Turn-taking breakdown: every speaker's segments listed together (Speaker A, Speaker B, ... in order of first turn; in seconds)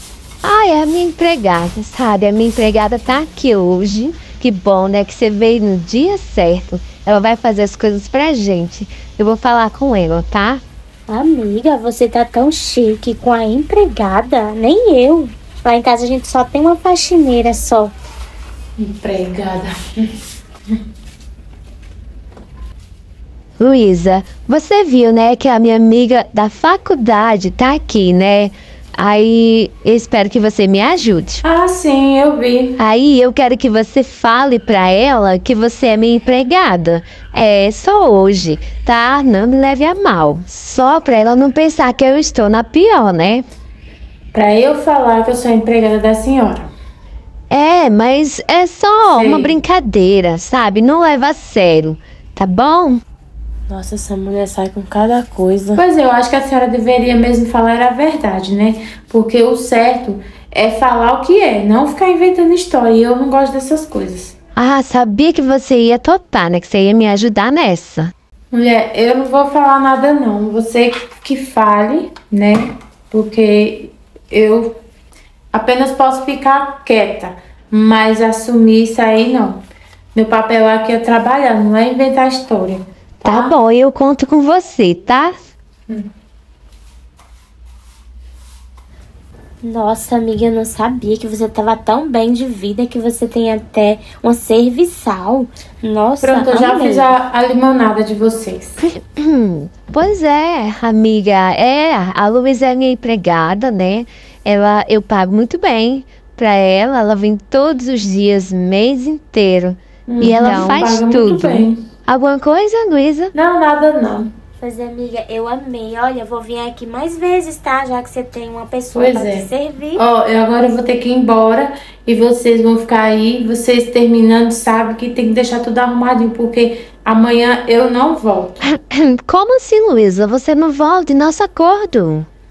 Speaker A: 0.4-10.6, 23.6-31.4, 32.8-43.5, 47.5-53.0, 64.6-68.1, 83.2-85.3, 98.8-113.3, 128.6-132.3
Speaker B: 11.1-17.9, 53.7-55.8, 89.6-97.1, 114.6-120.0
Speaker C: 18.8-20.1, 31.4-32.8, 44.3-46.7, 49.1-49.6, 55.8-64.3, 68.5-74.7, 75.5-79.6, 80.1-83.5, 96.2-98.8, 110.1-111.8, 113.3-114.3, 118.9-128.6